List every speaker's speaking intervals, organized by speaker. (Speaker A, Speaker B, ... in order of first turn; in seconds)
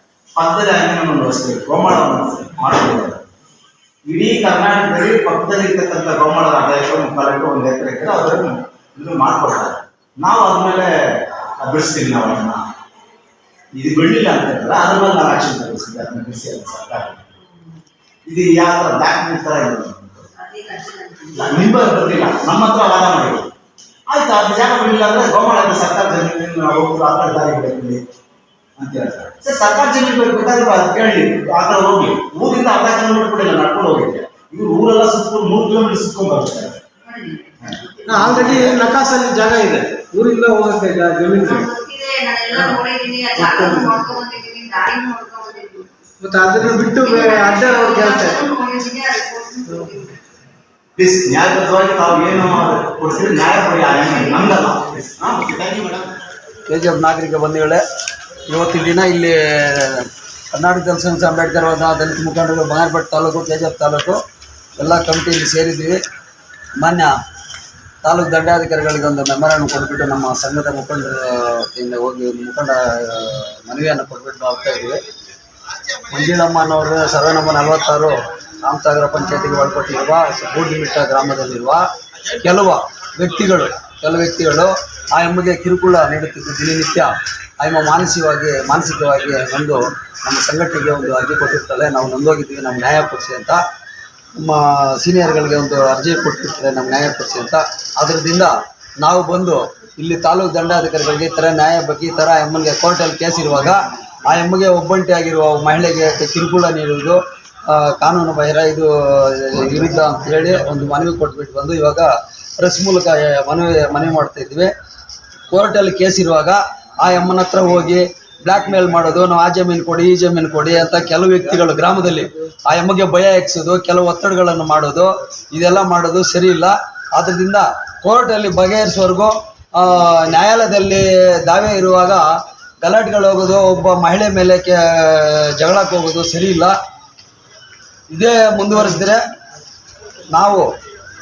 Speaker A: 0.4-3.2, 4.1-10.9, 11.6-12.6, 13.8-17.3, 18.3-20.3, 21.3-23.5, 24.1-28.0, 28.8-36.8, 37.6-38.8, 51.0-56.0
Speaker B: 20.4-21.8, 37.0-39.0, 41.3-45.9, 46.6-50.1
Speaker C: 38.1-41.7, 43.4-44.0, 46.2-48.4
Speaker D: 56.7-57.8, 58.5-64.2, 64.8-66.0, 66.8-67.1, 68.0-75.0, 76.1-93.6, 94.4-114.7, 115.5-132.3, 132.8-136.7, 138.1-139.2, 140.3-140.7